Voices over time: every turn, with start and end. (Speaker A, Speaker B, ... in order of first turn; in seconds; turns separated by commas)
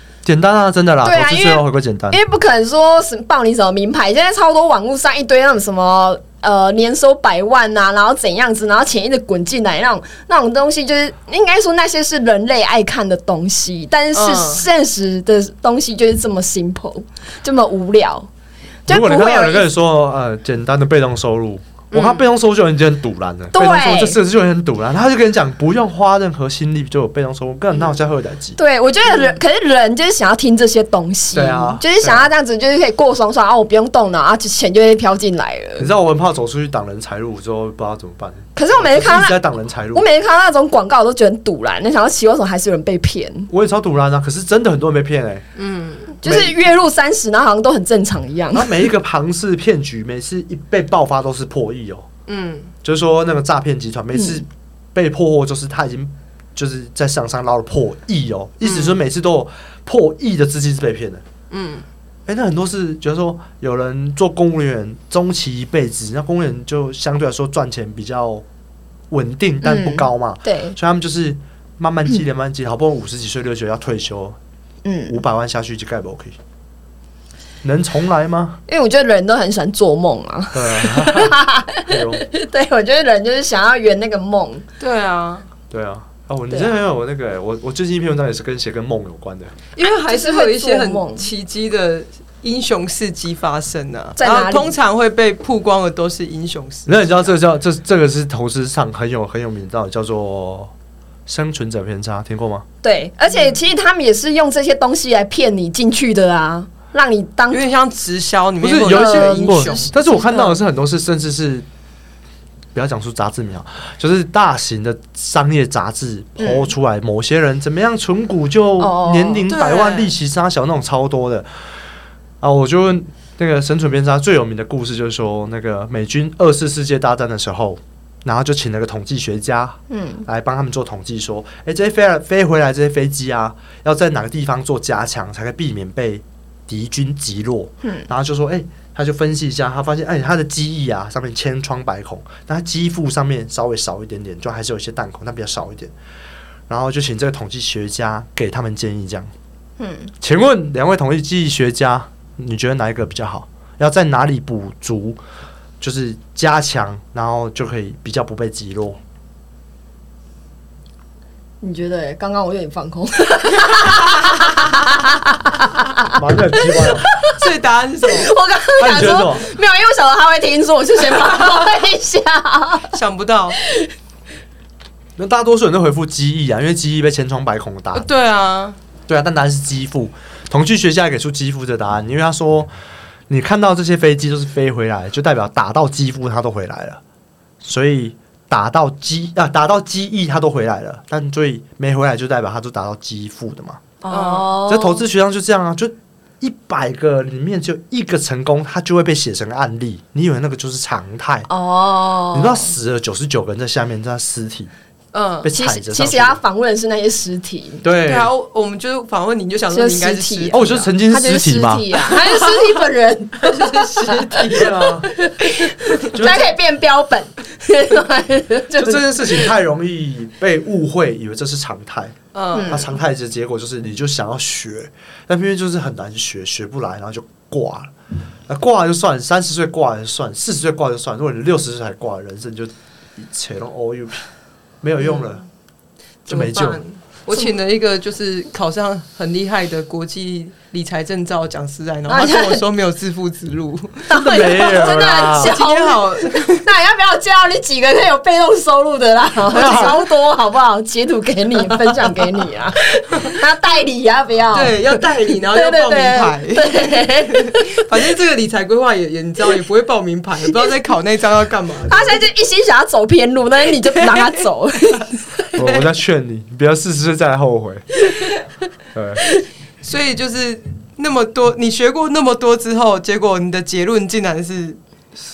Speaker A: 0.2-2.2, Speaker B: 1.0-18.3, Speaker C: 14.1-14.6, Speaker B: 18.9-19.7, Speaker A: 18.9-28.6, Speaker C: 21.9-22.2, Speaker B: 23.5-24.2, Speaker B: 28.6-35.9, Speaker A: 31.3-32.3, Speaker A: 35.8-40.1, Speaker B: 38.5-39.4, Speaker B: 39.9-43.5, Speaker A: 43.5-45.4, Speaker C: 45.5-46.1, Speaker B: 46.2-48.9, Speaker A: 46.2-46.6, Speaker A: 48.5-52.1, Speaker C: 52.3-52.7, Speaker A: 52.8-61.2, Speaker B: 54.1-54.4, Speaker C: 58.6-59.0, Speaker C: 61.5-61.9, Speaker A: 62.3-68.4, Speaker A: 69.1-74.4, Speaker B: 69.6-70.8, Speaker B: 74.8-75.2, Speaker A: 75.1-76.4, Speaker A: 77.6-78.6, Speaker B: 78.7-84.6, Speaker A: 80.5-82.2, Speaker C: 84.8-85.5, Speaker A: 85.7-89.5, Speaker C: 89.8-97.3, Speaker B: 89.8-91.3, Speaker B: 94.2-94.7, Speaker A: 96.9-100.7, Speaker A: 101.3-102.7, Speaker B: 102.8-107.6, Speaker C: 107.5-109.9, Speaker A: 108.6-111.7, Speaker B: 108.8-110.6, Speaker A: 112.7-121.5, Speaker B: 116.4-116.7, Speaker B: 118.8-119.5, Speaker C: 119.5-120.1, Speaker A: 122.4-145.9, Speaker B: 129.9-130.2, Speaker A: 146.7-149.3, Speaker B: 149.8-150.1, Speaker A: 150.2-155.2, Speaker A: 155.8-159.0, Speaker B: 161.6-167.4, Speaker A: 166.1-167.1, Speaker C: 167.3-168.3, Speaker B: 168.1-172.9, Speaker A: 168.8-169.5, Speaker C: 172.9-173.6, Speaker A: 175.2-178.1, Speaker C: 177.9-178.8, Speaker A: 179.1-182.7, Speaker A: 183.3-187.0, Speaker A: 187.6-193.8, Speaker B: 194.0-195.1, Speaker C: 194.1-194.6, Speaker A: 194.7-201.5, Speaker B: 201.5-202.7, Speaker A: 202.3-204.7, Speaker C: 205.1-205.5, Speaker A: 205.4-206.4, Speaker B: 205.5-207.8, Speaker A: 207.8-208.3, Speaker C: 207.9-210.9, Speaker B: 209.7-214.6, Speaker A: 210.5-211.9, Speaker C: 212.0-212.8, Speaker C: 213.4-214.9, Speaker A: 214.5-215.1, Speaker B: 215.1-219.5, Speaker A: 216.1-216.5, Speaker A: 218.7-227.9, Speaker C: 222.3-222.8, Speaker B: 222.5-222.9, Speaker A: 228.5-234.2, Speaker A: 234.8-235.4, Speaker C: 236.2-244.1, Speaker A: 236.3-236.8, Speaker B: 242.1-242.6, Speaker B: 244.1-257.9, Speaker A: 244.1-245.6, Speaker C: 245.3-246.6, Speaker A: 249.5-250.0, Speaker C: 249.6-249.9, Speaker C: 254.5-262.2, Speaker B: 261.9-265.5, Speaker C: 263.7-264.4, Speaker A: 265.5-267.9, Speaker C: 265.6-265.9, Speaker A: 268.9-269.2, Speaker C: 269.8-274.8